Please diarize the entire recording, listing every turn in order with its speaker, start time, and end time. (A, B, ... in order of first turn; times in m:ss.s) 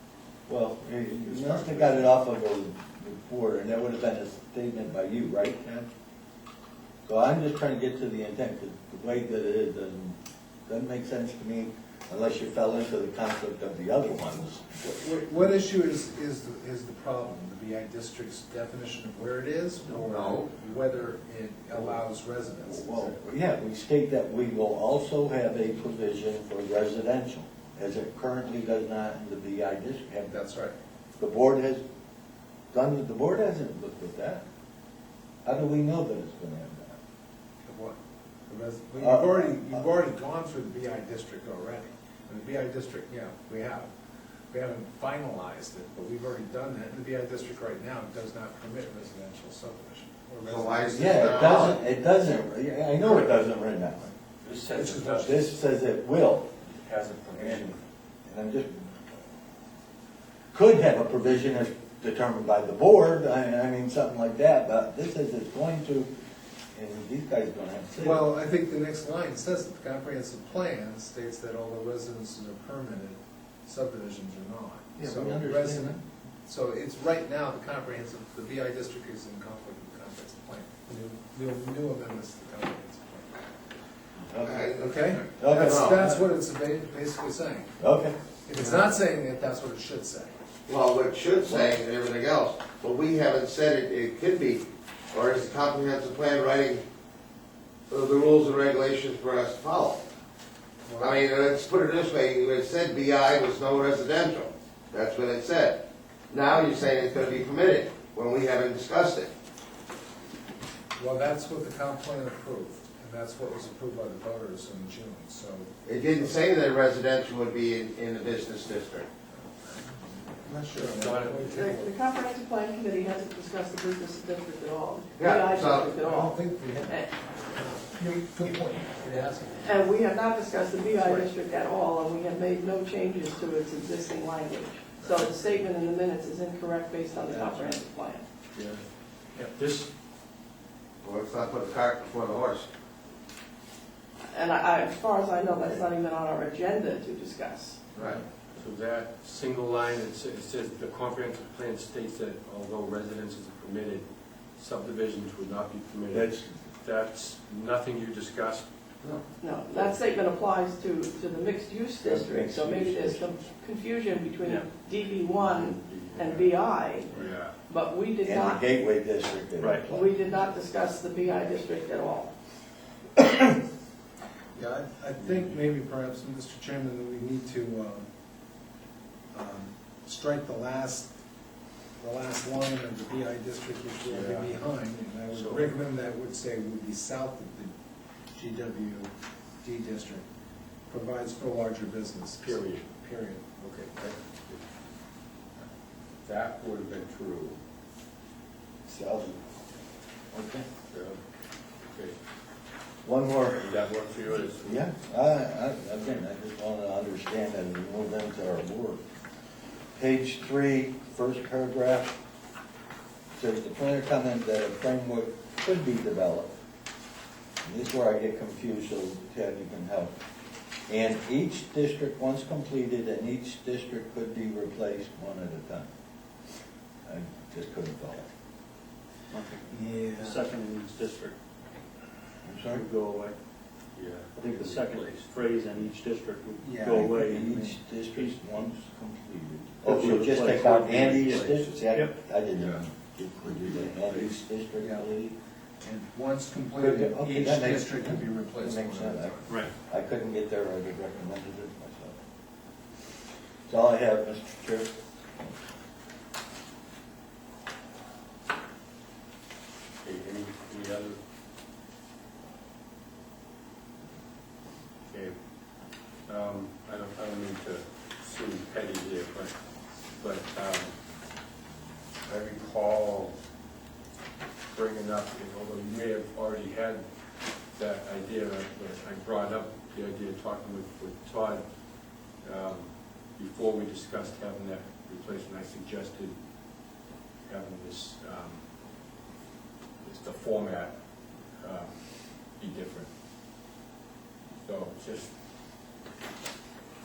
0:00.5-0:05.9 A
0:01.5-0:01.8 B
0:07.0-0:14.6 A
0:14.8-0:23.1 C
0:20.1-0:20.4 B
0:21.7-0:22.0 A
0:22.6-0:30.4 A
0:30.2-0:30.7 C
0:31.2-0:31.8 A
0:32.7-0:34.4 A
0:35.4-0:37.0 A
0:37.6-0:38.0 C
0:38.5-0:43.9 C
0:39.0-0:39.8 A
0:44.5-0:51.8 C
0:50.4-0:51.8 B
0:50.9-0:54.1 A
0:54.4-0:55.4 D
0:54.7-0:55.3 C
0:55.0-0:56.5 A
0:56.7-0:57.8 D
0:57.3-0:58.9 A
1:00.5-1:06.1 A
1:06.7-1:08.2 A
1:08.0-1:23.4 C
1:15.0-1:16.0 A
1:24.3-1:24.7 A
1:24.4-1:26.0 B
1:24.7-1:27.7 C
1:25.4-1:26.2 A
1:27.8-1:28.1 A
1:28.5-1:30.3 C
1:28.6-1:28.8 B
1:30.7-1:36.8 B
1:31.5-1:31.8 A
1:37.9-1:40.0 B
1:40.8-1:41.2 C
1:41.0-1:49.3 B
1:51.0-1:56.3 C
1:55.8-1:59.1 B
1:59.7-2:01.9 C
2:00.7-2:01.6 D
2:01.5-2:07.1 E
2:05.2-2:05.9 B
2:06.0-2:09.6 C
2:09.6-2:18.2 E
2:18.5-2:18.8 D
2:19.3-2:19.9 D
2:21.0-2:22.7 B
2:24.3-2:27.9 E
2:28.0-2:34.0 D
2:34.6-2:38.6 D
2:36.1-2:36.6 A
2:39.4-2:48.7 E
2:42.0-2:43.3 A
2:44.4-2:44.7 F
2:45.4-2:47.5 D
2:48.2-2:50.2 A
2:49.6-2:49.9 F
2:49.9-2:52.3 E
2:54.5-2:58.0 C
2:55.2-2:55.6 D
2:59.3-3:01.1 C
3:02.0-3:07.7 C
3:04.0-3:04.6 D
3:05.3-3:05.7 D
3:08.3-3:09.1 C
3:09.6-3:10.2 C
3:10.9-3:13.6 C
3:12.4-3:12.8 D
3:13.6-3:14.6 D
3:16.2-3:17.6 D
3:18.9-3:19.4 A
3:20.3-3:20.6 A
3:20.9-3:21.2 D
3:21.9-3:22.2 D
3:23.0-3:23.8 A
3:23.6-3:24.8 D
3:24.6-3:29.0 A
3:29.9-3:32.1 A
3:33.3-3:36.5 A
3:37.6-3:40.1 A
3:40.9-3:45.9 A
3:47.0-3:48.3 A
3:49.3-3:49.7 A
3:49.7-3:50.4 C
3:50.0-3:51.4 F
3:52.4-3:52.8 A
3:52.7-3:53.4 F
3:53.9-3:55.2 D
3:54.4-3:58.3 F
3:56.6-3:57.7 C
3:56.9-4:05.3 A
3:59.8-4:02.1 F
4:02.5-4:02.8 D
4:03.5-4:04.3 D
4:04.8-4:05.1 C
4:05.8-4:09.5 C
4:06.8-4:12.2 A
4:13.7-4:15.6 A
4:20.0-4:21.2 D
4:25.1-4:25.4 D
4:26.3-4:29.5 D
4:30.2-4:30.9 D
4:32.2-4:33.4 D
4:34.7-4:37.0 D
4:37.7-4:41.6 D
4:42.4-4:46.4 D
4:47.5-4:48.6 D
4:50.0-4:50.9 D
4:51.6-4:53.1 D
4:54.6-4:55.3 D